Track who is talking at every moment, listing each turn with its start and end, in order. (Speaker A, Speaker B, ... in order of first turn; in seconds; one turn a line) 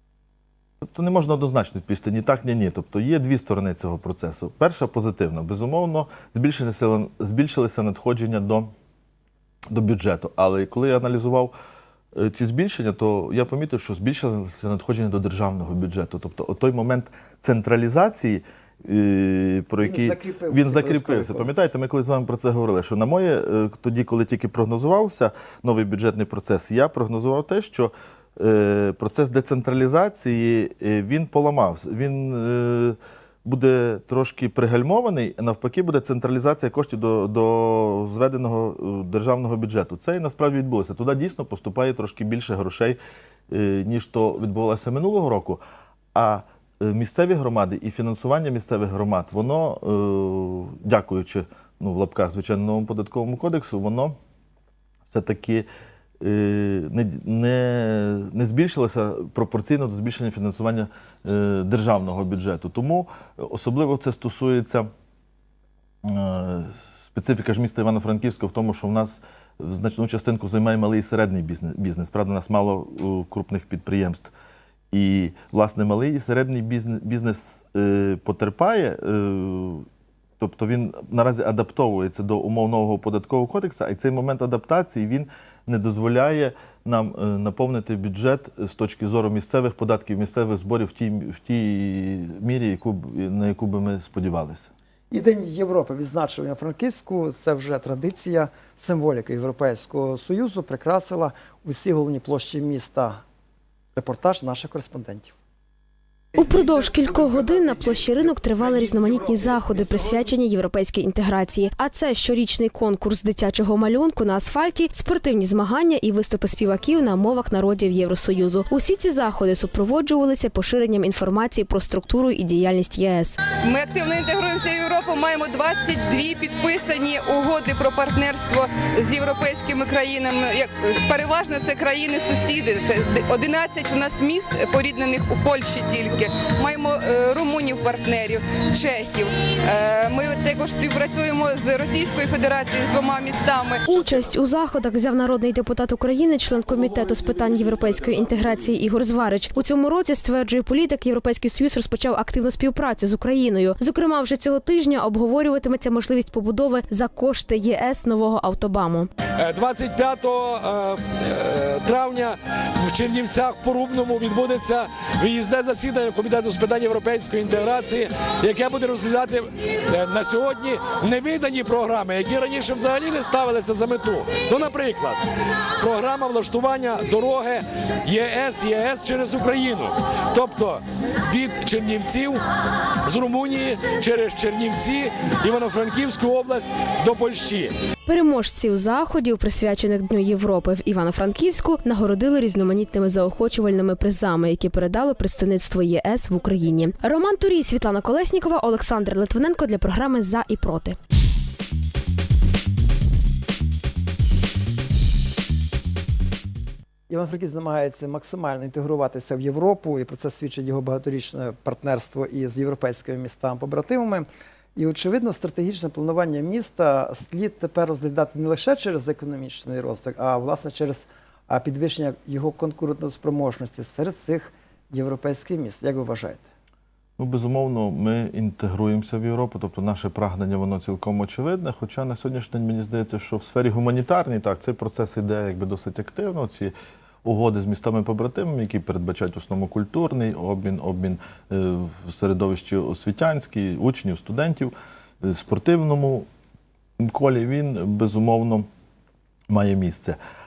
Speaker A: 0.8-8.7
Speaker A: 9.7-11.5
Speaker A: 12.1-43.0
Speaker B: 19.8-21.5
Speaker A: 43.5-45.6
Speaker A: 46.1-54.2
Speaker A: 55.1-55.7
Speaker A: 56.2-64.9
Speaker A: 66.0-74.3
Speaker A: 74.9-79.9
Speaker A: 80.4-94.7
Speaker B: 95.1-103.2
Speaker B: 103.9-105.3
Speaker B: 106.3-110.2
Speaker C: 106.3-123.4
Speaker D: 123.6-144.3
Speaker C: 143.9-159.1
Speaker E: 159.4-175.2
Speaker E: 175.8-182.4
Speaker E: 183.0-187.7
Speaker C: 188.1-200.9
Speaker B: 207.1-226.5
Speaker A: 227.2-246.3
Speaker A: 247.0-248.7
Speaker A: 249.5-250.2